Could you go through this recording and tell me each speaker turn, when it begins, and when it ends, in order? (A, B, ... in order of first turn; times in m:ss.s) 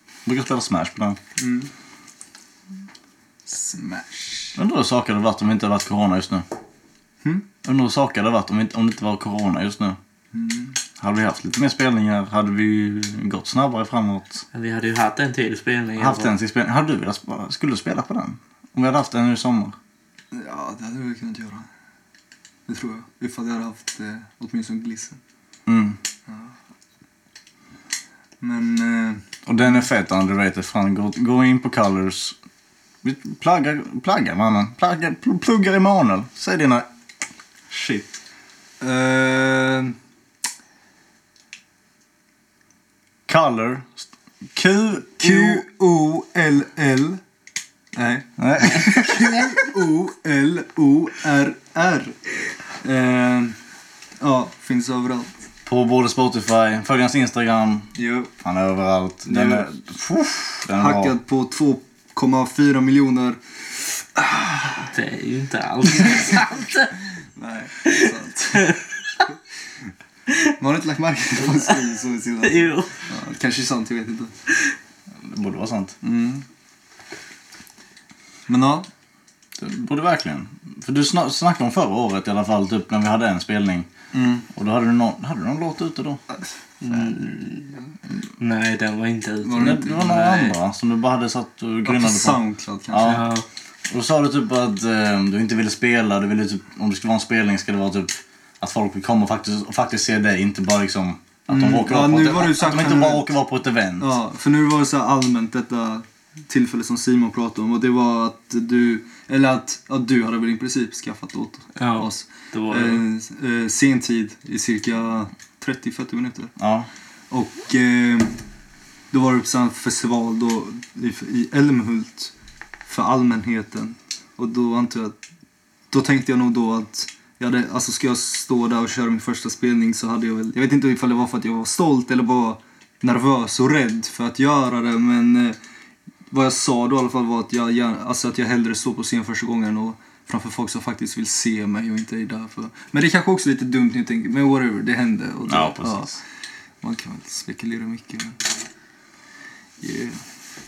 0:00.2-0:01.2 A
0:01.4-0:01.7 B
0:03.5-0:04.6 B
0:04.6-0:06.4 A
0:07.6-0:10.0 A
0:10.3-0:10.8 B
0:11.0-0:14.4 A
0:14.5-0:16.3 C
0:16.0-0:19.8 A
0:20.3-0:21.7 B
0:22.7-0:25.2 B
0:25.7-0:26.0 A
0:26.3-0:26.5 B
0:28.4-0:29.2 B
0:29.4-0:32.4 A
0:33.0-0:36.9 A
0:37.7-0:38.1 A
0:38.8-0:39.9 B
0:43.3-0:45.6 A
0:45.2-0:47.2 B
0:47.9-0:52.3 B
0:48.4-0:49.6 A
0:52.8-0:53.5 B
0:54.2-0:55.3 B
0:55.6-1:01.1 A
0:58.0-0:58.3 B
0:59.2-0:59.7 B
1:00.7-1:04.9 B
1:04.8-1:06.9 C
1:06.0-1:06.4 B
1:07.4-1:08.8 B
1:07.8-1:09.2 C
1:10.6-1:14.3 B
1:11.4-1:11.8 C
1:12.4-1:13.0 C
1:15.2-1:16.0 A
1:16.0-1:16.4 B
1:18.5-1:18.8 B
1:19.6-1:23.9 A
1:24.1-1:24.4 B
1:24.5-1:26.2 A
1:26.3-1:27.8 B
1:26.8-1:27.6 C
1:28.4-1:30.5 C
1:29.4-1:30.0 B
1:29.6-1:32.4 A
1:31.8-1:33.2 B
1:32.9-1:33.2 A
1:33.0-1:33.4 C
1:33.9-1:44.1 A
1:41.5-1:43.3 B
1:44.0-1:56.5 B
1:51.7-1:53.0 C
1:56.6-1:56.9 A
1:57.3-1:58.4 B
1:59.1-2:02.3 B
2:02.9-2:05.2 B
2:05.9-2:15.6 B
2:16.3-2:26.2 B
2:25.5-2:26.2 A
2:26.8-2:28.4 B
2:29.8-2:30.2 B